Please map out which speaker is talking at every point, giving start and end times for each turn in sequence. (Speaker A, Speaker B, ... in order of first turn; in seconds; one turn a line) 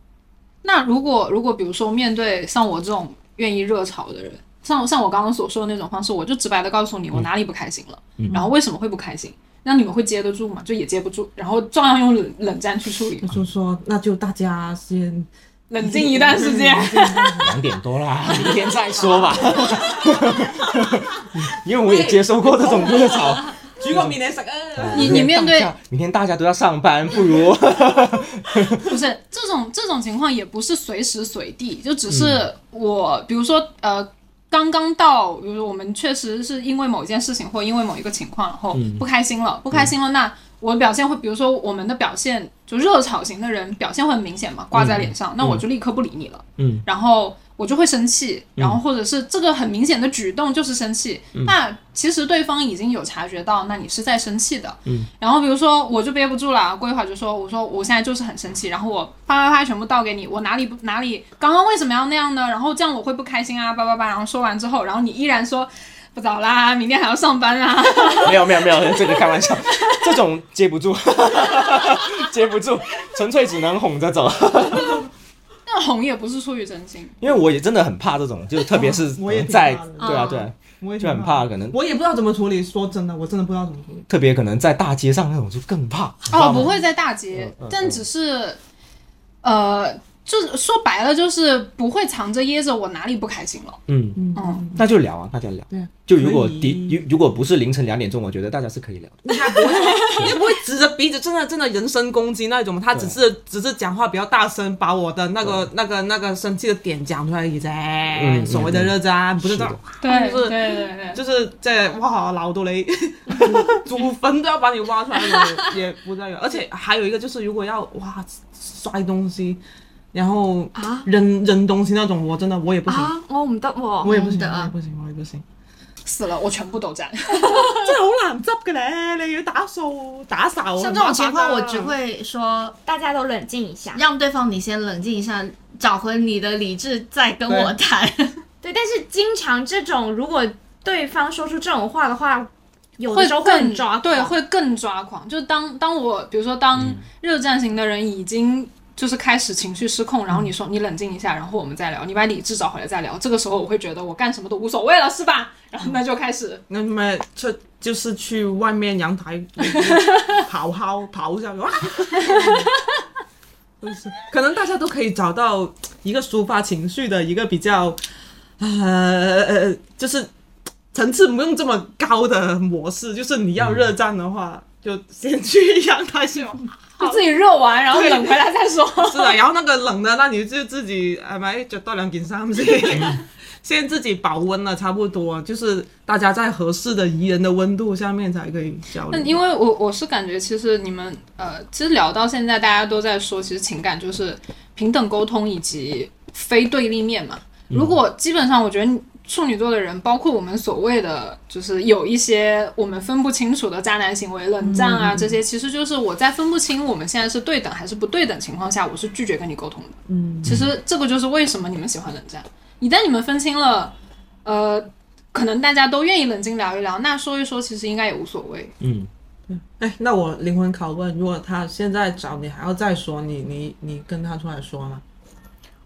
Speaker A: 0.6-13.3
Speaker B: 13.2-15.3
Speaker A: 15.7-17.5
Speaker B: 15.8-17.5
Speaker C: 17.4-24.2
Speaker B: 18.4-20.4
Speaker B: 21.9-25.3
Speaker C: 24.8-28.8
Speaker A: 24.9-25.7
Speaker A: 28.8-68.5
Speaker C: 32.1-32.4
Speaker C: 38.7-39.0
Speaker C: 44.7-45.6
Speaker C: 46.6-46.9
Speaker C: 68.2-75.1
Speaker A: 75.7-77.3
Speaker C: 77.2-81.8
Speaker B: 78.7-84.0
Speaker D: 80.0-80.5
Speaker C: 84.1-86.8
Speaker A: 86.3-88.6
Speaker B: 86.4-86.7
Speaker C: 87.3-88.0
Speaker A: 89.4-93.8
Speaker C: 93.9-94.2
Speaker B: 94.2-94.8
Speaker A: 94.3-94.6
Speaker C: 94.8-99.3
Speaker B: 95.7-97.0
Speaker B: 99.2-119.6
Speaker C: 102.9-103.2
Speaker C: 105.4-105.7
Speaker C: 108.1-109.8
Speaker A: 110.0-111.2
Speaker B: 120.1-123.1
Speaker E: 120.7-121.1
Speaker E: 122.9-124.1
Speaker B: 124.0-125.4
Speaker D: 124.0-124.7
Speaker A: 126.0-127.9
Speaker B: 127.3-131.9
Speaker D: 130.8-132.8
Speaker E: 132.8-134.0
Speaker D: 133.9-138.4
Speaker B: 137.5-137.7
Speaker E: 138.6-144.3
Speaker A: 143.1-156.6
Speaker C: 146.8-147.0
Speaker B: 156.7-162.7
Speaker A: 162.3-162.8
Speaker B: 163.8-168.0
Speaker B: 168.6-170.3
Speaker B: 170.9-177.1
Speaker C: 173.6-173.9
Speaker A: 177.0-179.4
Speaker B: 177.9-178.4
Speaker B: 179.0-189.4
Speaker A: 189.1-218.7
Speaker C: 197.7-198.0
Speaker B: 204.6-205.4
Speaker B: 210.1-210.5
Speaker C: 210.4-210.7
Speaker C: 218.8-219.1
Speaker B: 219.5-225.0